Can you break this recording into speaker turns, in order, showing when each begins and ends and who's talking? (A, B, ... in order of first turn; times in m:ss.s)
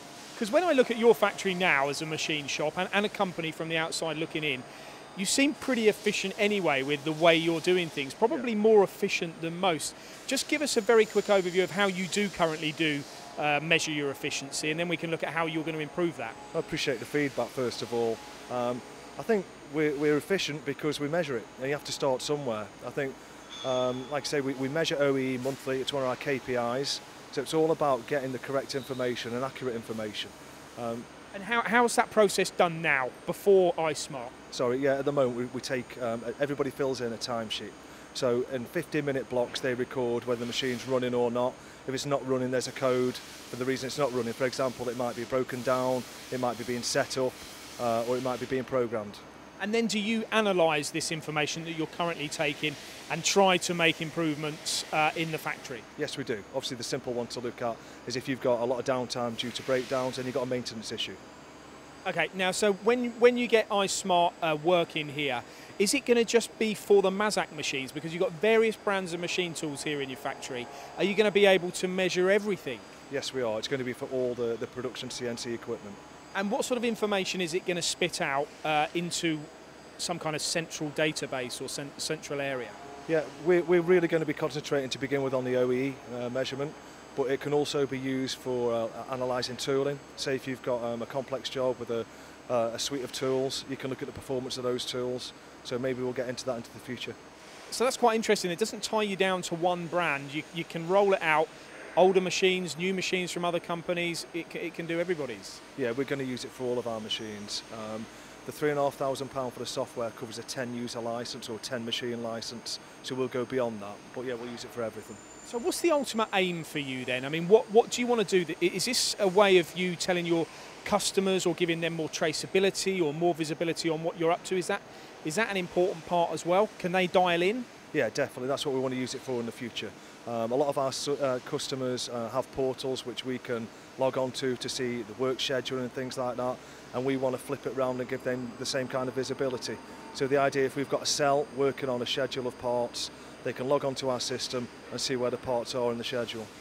0:00.4-0:04.6 A
0:05.2-0:16.4 A
0:16.5-0:31.1 B
0:31.3-0:34.3 A
0:34.5-0:49.2 B
0:49.6-0:55.9 A
0:56.0-1:01.2 B
1:02.0-1:12.9 A
1:13.1-1:16.0 B
1:16.3-1:19.5 A
1:20.0-1:22.8 A
1:23.1-1:37.2 B
1:37.7-1:45.6 A
1:45.8-1:55.2 B
1:55.4-2:07.7 A
2:07.9-2:26.5 B